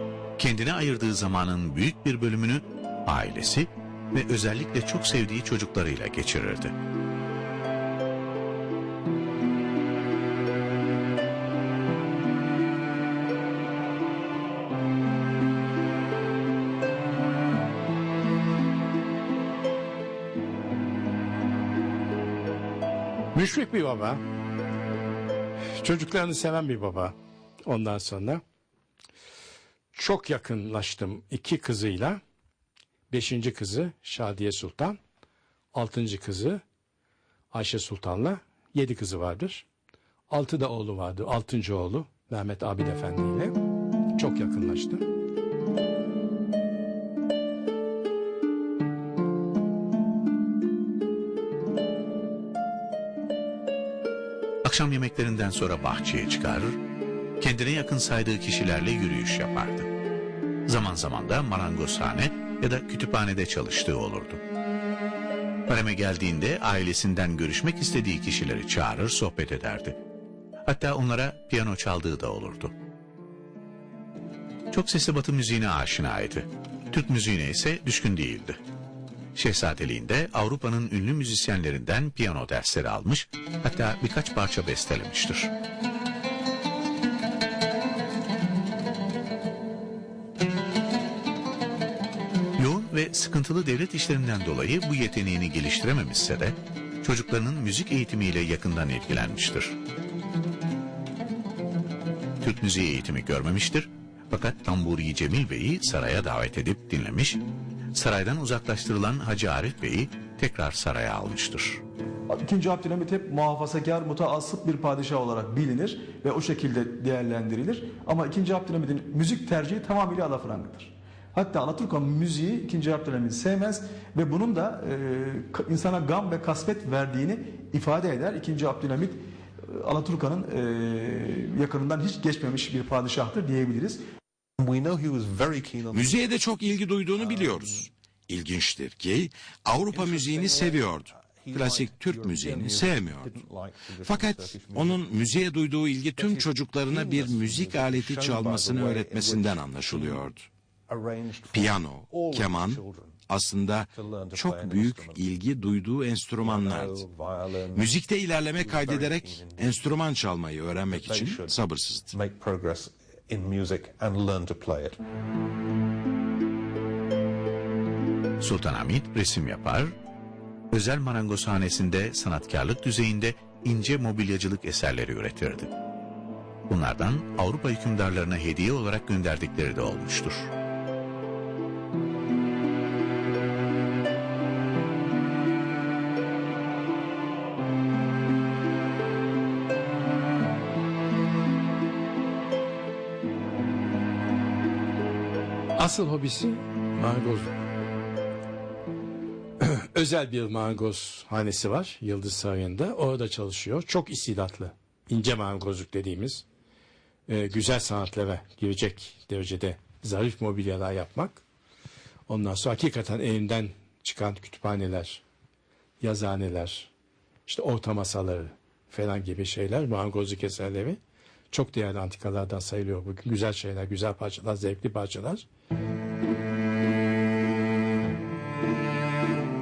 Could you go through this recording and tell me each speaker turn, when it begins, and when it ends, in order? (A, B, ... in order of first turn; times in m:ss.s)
0:00.4-0:06.7 A
0:23.3-0:24.2 B
0:25.8-0:27.1 B
0:27.6-0:28.4 B
0:29.9-0:32.2 B
0:33.1-0:35.0 B
0:35.7-0:36.6 B
0:37.5-0:39.6 B
0:40.3-0:43.5 B
0:44.2-0:45.0 B
0:54.6-0:56.8 A
0:57.4-0:59.9 A
1:00.7-1:04.4 A
1:05.7-1:10.0 A
1:10.7-1:12.7 A
1:14.7-1:18.6 A
1:19.4-1:25.5 A
1:32.6-1:39.7 A
1:42.4-1:47.4 A
1:47.9-1:51.8 A
1:52.3-2:14.0 C
2:14.6-2:16.3 D
2:15.9-2:23.4 E
2:17.2-2:17.6 D
2:19.9-2:25.2 D
2:24.0-2:30.5 E
2:26.1-2:30.3 D
2:30.9-2:33.2 D
2:31.5-2:37.0 E
2:33.9-2:35.2 D
2:36.4-2:40.0 D
2:37.7-2:42.1 E
2:40.9-2:45.0 D
2:48.4-2:49.9 A
2:50.7-2:55.7 A
2:56.7-3:00.5 A
3:15.8-3:17.5 B
3:19.6-3:26.4 B
3:27.3-3:31.4 B
3:32.3-3:35.2 B
3:36.0-3:36.9 B
3:37.5-3:41.0 B
3:41.5-3:45.4 B